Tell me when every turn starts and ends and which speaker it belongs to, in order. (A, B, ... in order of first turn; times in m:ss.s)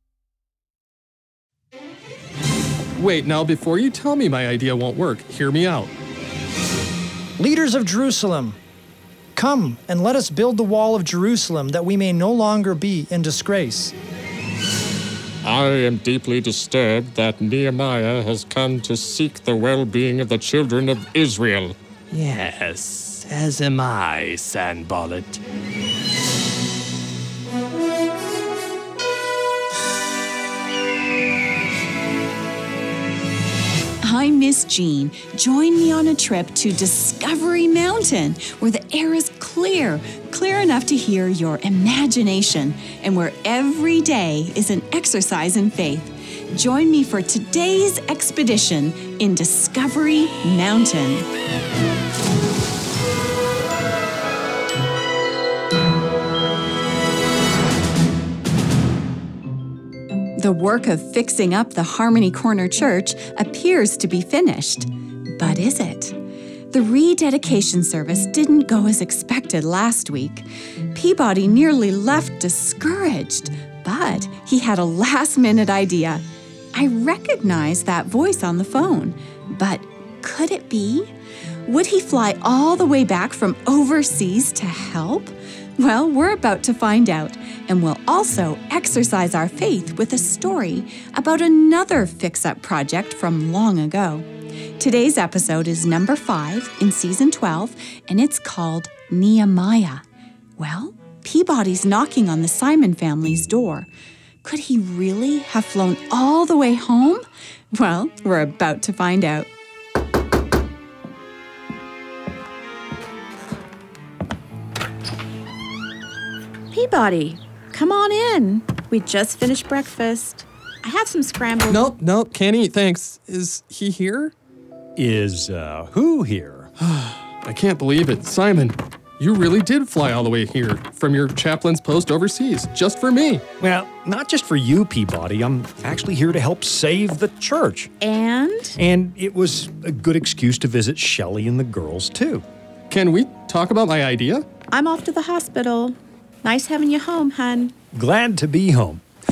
0:03.0-0:05.9 A
0:07.4-0:08.6 B
0:09.4-0:14.0 B
0:15.4-0:21.8 C
0:22.1-0:25.4 D
0:34.0-0:51.3 E
1:00.4-1:06.2 E
1:06.7-1:21.1 E
1:21.7-1:34.3 E
1:34.8-1:40.0 E
1:40.6-1:43.9 E
1:44.4-1:49.5 E
1:56.7-2:01.9 F
2:01.7-2:04.3 A
2:05.0-2:06.7 G
2:06.8-2:13.4 A
2:13.6-2:17.9 G
2:18.0-2:18.8 F
2:18.8-2:22.5 G
2:22.9-2:24.4 A
2:24.7-2:27.8 F
2:27.9-2:29.0 G